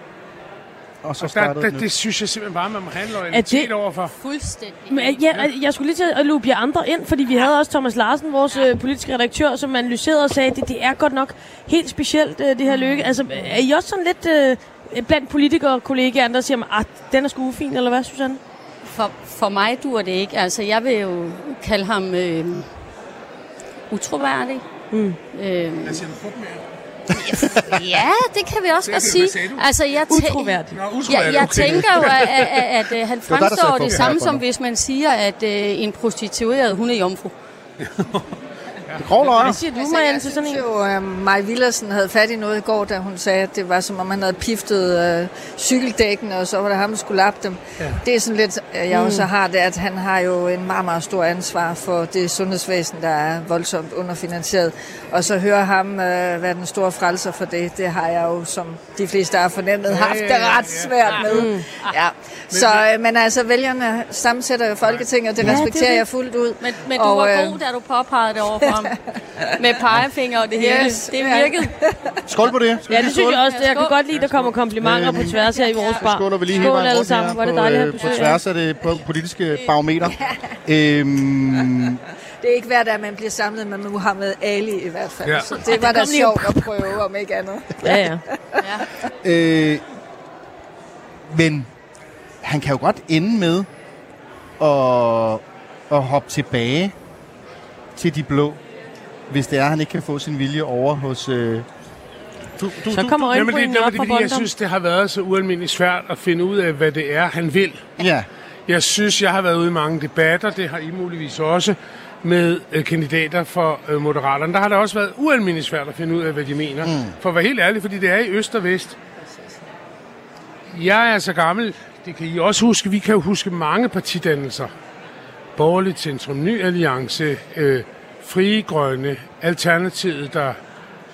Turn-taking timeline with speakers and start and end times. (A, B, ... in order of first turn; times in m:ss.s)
0:01.0-0:01.9 A
0:01.2-0:04.2 B
0:03.3-0:03.7 C
0:04.2-0:05.3 D
0:04.9-0:18.4 C
0:12.7-0:13.1 D
0:18.9-0:22.7 D
0:23.9-0:24.6 D
0:24.9-0:25.2 C
0:25.3-0:26.1 D
0:25.8-0:26.6 B
0:27.2-0:37.3 D
0:28.8-0:29.7 B
0:30.1-0:30.8 C
0:30.7-0:32.6 B
0:33.3-0:34.4 A
0:37.8-0:38.3 B
0:38.9-0:39.5 B
0:39.0-0:39.6 A
0:39.4-0:40.6 C
0:39.8-1:07.6 E
0:48.9-0:49.3 C
0:59.9-1:01.4 B
1:01.2-1:01.6 C
1:02.5-1:02.9 B
1:05.4-1:06.0 C
1:06.6-1:09.0 D
1:08.5-1:08.9 E
1:09.6-1:11.7 D
1:09.9-1:11.9 E
1:12.3-1:13.3 A
1:12.9-1:18.4 C
1:12.9-1:14.3 D
1:14.8-1:15.4 A
1:15.3-1:17.1 D
1:16.0-1:20.1 A
1:18.0-1:18.3 D
1:19.5-1:19.8 D
1:20.7-1:22.0 A
1:22.4-1:28.0 E
1:25.2-1:25.6 B
1:25.7-1:26.7 C
1:27.8-1:28.2 C
1:29.2-1:29.8 A
1:31.3-1:31.7 A
1:32.4-1:33.7 A
1:34.6-1:37.0 A
1:38.0-1:38.6 A
1:39.3-1:41.7 A
1:42.6-1:43.2 A
1:42.9-1:44.5 C
1:43.1-1:47.9 B
1:48.0-1:48.3 A
1:48.7-1:59.0 B
1:56.8-1:57.2 A
2:00.7-2:04.7 B
2:05.6-2:10.6 B